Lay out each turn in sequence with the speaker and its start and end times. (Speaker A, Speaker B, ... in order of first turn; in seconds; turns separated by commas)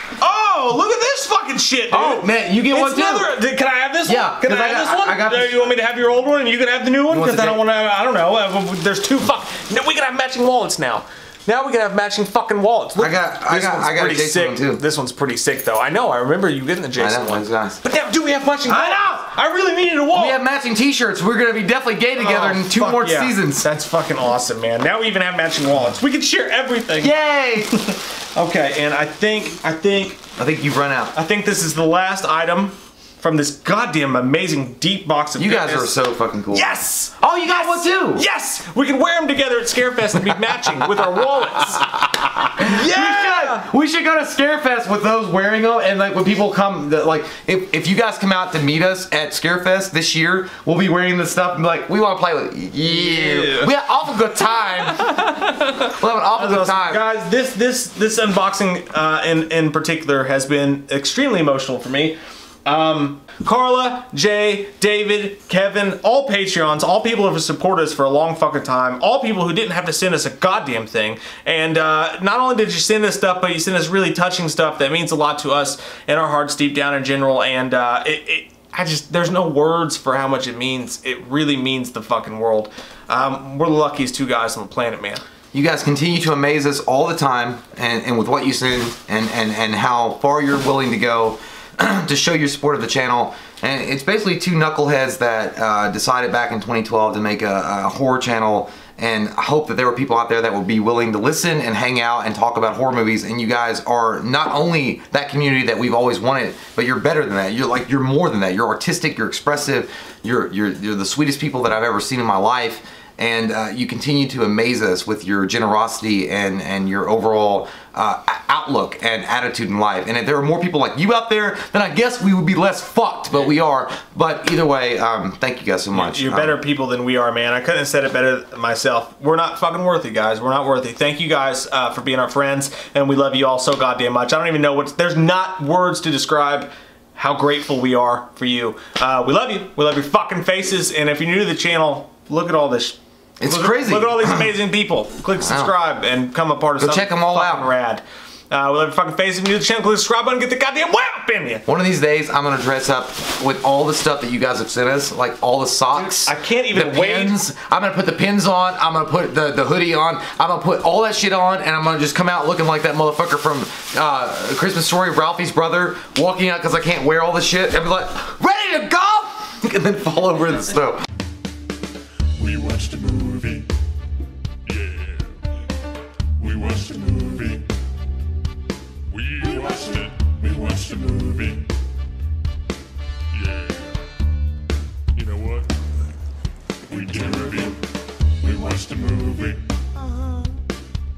Speaker A: 0.2-20.4, Speaker B: 1.9-3.4, Speaker B: 4.0-5.8, Speaker B: 7.1-7.6, Speaker B: 13.0-14.8, Speaker B: 17.0-17.8, Speaker B: 18.7-19.2, Speaker B: 20.1-23.7, Speaker A: 22.2-27.2, Speaker B: 27.0-27.8, Speaker A: 27.7-30.2, Speaker B: 30.4-31.1, Speaker A: 31.1-35.9, Speaker B: 35.4-38.2, Speaker A: 36.5-41.9, Speaker B: 41.8-55.3, Speaker A: 42.6-43.7, Speaker A: 52.8-53.7, Speaker A: 55.0-85.2, Speaker B: 55.9-57.0, Speaker B: 85.5-126.6, Speaker A: 125.9-151.7, Speaker B: 143.4-144.6, Speaker B: 145.4-145.7, Speaker B: 146.8-147.7, Speaker B: 151.7-171.0, Speaker A: 155.9-157.4, Speaker C: 172.4-173.7, Speaker C: 174.7-175.4, Speaker C: 176.4-177.7, Speaker C: 179.1-181.7, Speaker C: 183.3-184.0, Speaker C: 185.2-185.7, Speaker C: 186.9-187.8, Speaker C: 188.4-189.7